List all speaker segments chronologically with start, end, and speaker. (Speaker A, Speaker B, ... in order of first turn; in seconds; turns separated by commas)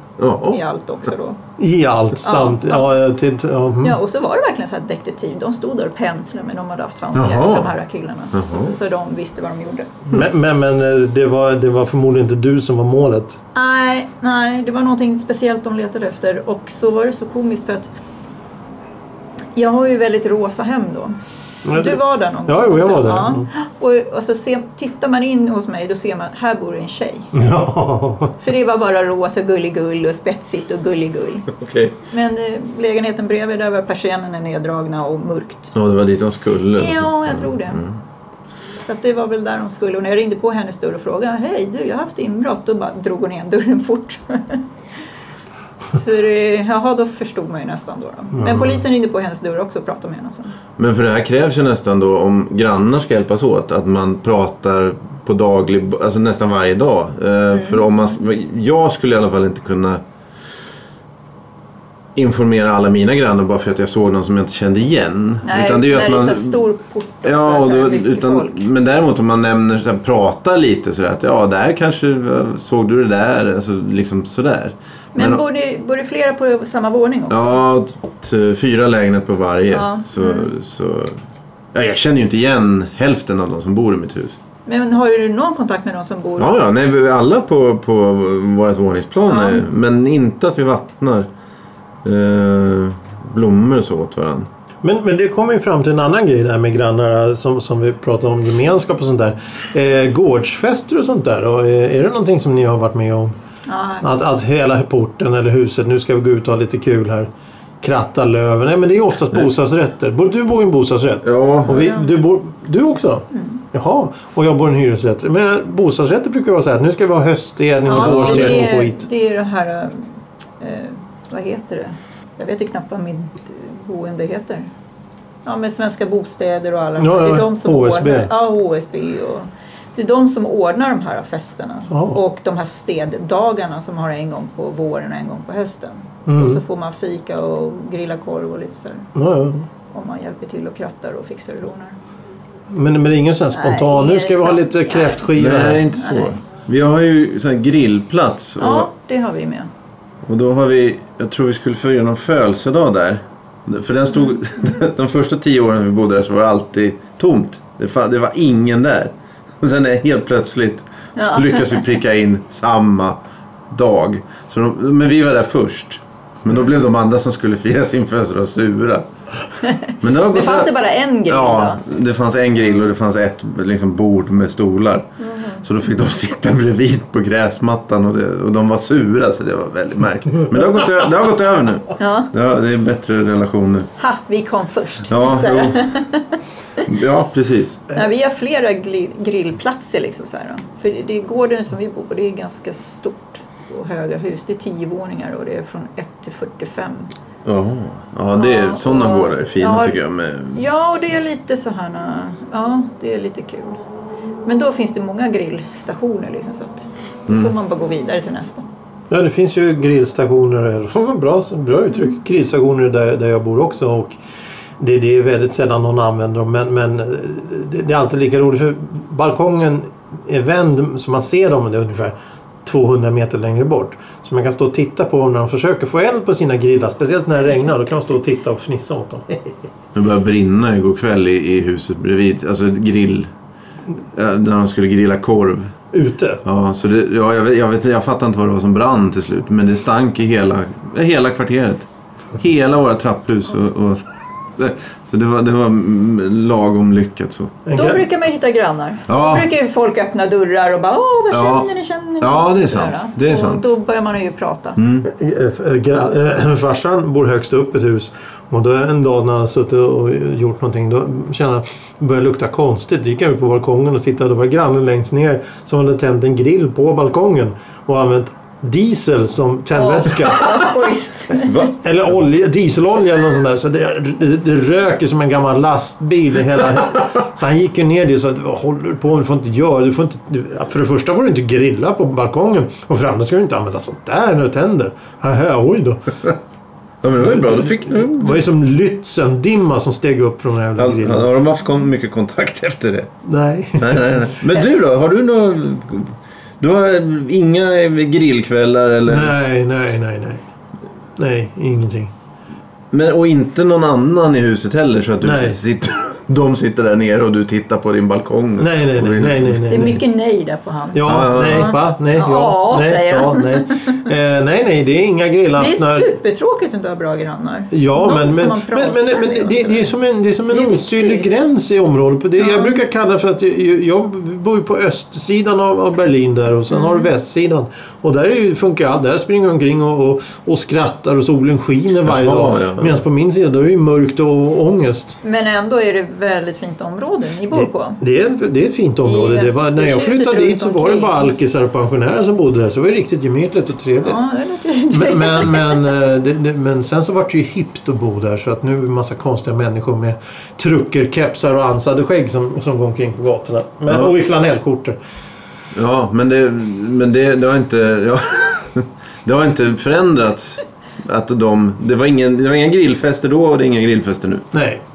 Speaker A: 0.2-0.6, Speaker B: 0.4-1.4, Speaker C: 1.6-4.0, Speaker B: 2.2-2.9, Speaker B: 3.8-9.9, Speaker A: 7.2-7.7, Speaker A: 8.3-8.7, Speaker C: 10.1-13.4, Speaker B: 13.6-17.9, Speaker B: 19.6-21.1, Speaker C: 21.6-23.5, Speaker B: 21.7-27.3, Speaker C: 27.3-28.4, Speaker B: 28.4-31.5, Speaker A: 31.5-31.9, Speaker B: 32.1-35.7, Speaker A: 35.7-37.9, Speaker B: 36.8-37.8, Speaker B: 38.8-44.6, Speaker B: 45.9-50.6, Speaker A: 50.8-60.0, Speaker B: 57.5-57.9, Speaker A: 62.2-66.6, Speaker B: 65.4-68.6, Speaker A: 67.2-75.4, Speaker B: 75.2-77.6, Speaker A: 77.3-81.2, Speaker B: 79.7-80.5, Speaker A: 81.7-84.4, Speaker B: 84.7-86.6, Speaker A: 86.4-91.3, Speaker B: 89.3-89.7, Speaker A: 92.0-94.5, Speaker C: 94.8-103.3, Speaker B: 103.7-104.1, Speaker C: 104.0-107.3, Speaker C: 107.8-119.0, Speaker A: 111.2-111.9, Speaker B: 111.7-112.1, Speaker B: 113.3-113.6, Speaker B: 117.8-124.7, Speaker A: 117.9-118.7, Speaker B: 125.5-139.1, Speaker C: 127.0-128.3, Speaker C: 131.9-132.2, Speaker C: 136.3-136.6, Speaker C: 139.2-139.7, Speaker B: 139.9-142.0, Speaker C: 142.7-145.8, Speaker B: 143.5-146.4, Speaker A: 145.4-148.9, Speaker B: 148.6-149.7, Speaker A: 150.2-163.2, Speaker B: 161.2-161.8, Speaker A: 163.7-169.1, Speaker B: 169.6-171.8, Speaker A: 170.0-170.7, Speaker A: 171.3-175.1, Speaker B: 175.2-175.6, Speaker A: 175.6-183.9, Speaker B: 182.0-182.3, Speaker B: 184.0-186.4, Speaker A: 185.1-185.9, Speaker A: 186.8-187.9, Speaker B: 187.9-197.1, Speaker A: 197.4-200.6, Speaker B: 198.4-200.0, Speaker B: 200.5-203.8, Speaker B: 204.4-208.7, Speaker A: 207.3-207.5, Speaker C: 209.1-214.2, Speaker C: 214.8-229.7, Speaker A: 229.9-233.3, Speaker A: 234.2-235.7, Speaker C: 235.9-236.4, Speaker A: 236.4-247.6, Speaker C: 247.7-248.1, Speaker B: 247.7-254.8, Speaker A: 249.1-249.5, Speaker A: 251.3-251.7, Speaker A: 252.2-253.7, Speaker A: 254.8-255.1, Speaker C: 255.1-270.8, Speaker B: 269.7-271.6, Speaker A: 271.4-271.8, Speaker C: 271.8-286.3, Speaker A: 287.0-288.5, Speaker C: 287.1-291.3, Speaker A: 290.8-293.1, Speaker C: 293.2-294.3, Speaker A: 293.8-299.4, Speaker C: 299.1-300.4, Speaker C: 301.2-302.1, Speaker A: 302.9-309.9, Speaker C: 305.2-305.6, Speaker C: 308.6-310.0, Speaker B: 309.7-314.0, Speaker C: 310.9-316.1, Speaker A: 311.1-311.7, Speaker B: 315.6-319.9, Speaker C: 317.7-335.2, Speaker B: 320.5-321.3, Speaker B: 322.4-322.8, Speaker B: 326.7-327.1, Speaker A: 332.1-333.0, Speaker B: 335.2-338.0, Speaker C: 337.5-344.2, Speaker B: 339.0-341.3, Speaker B: 344.0-345.9, Speaker C: 344.9-355.0, Speaker A: 355.7-364.5, Speaker C: 364.5-364.8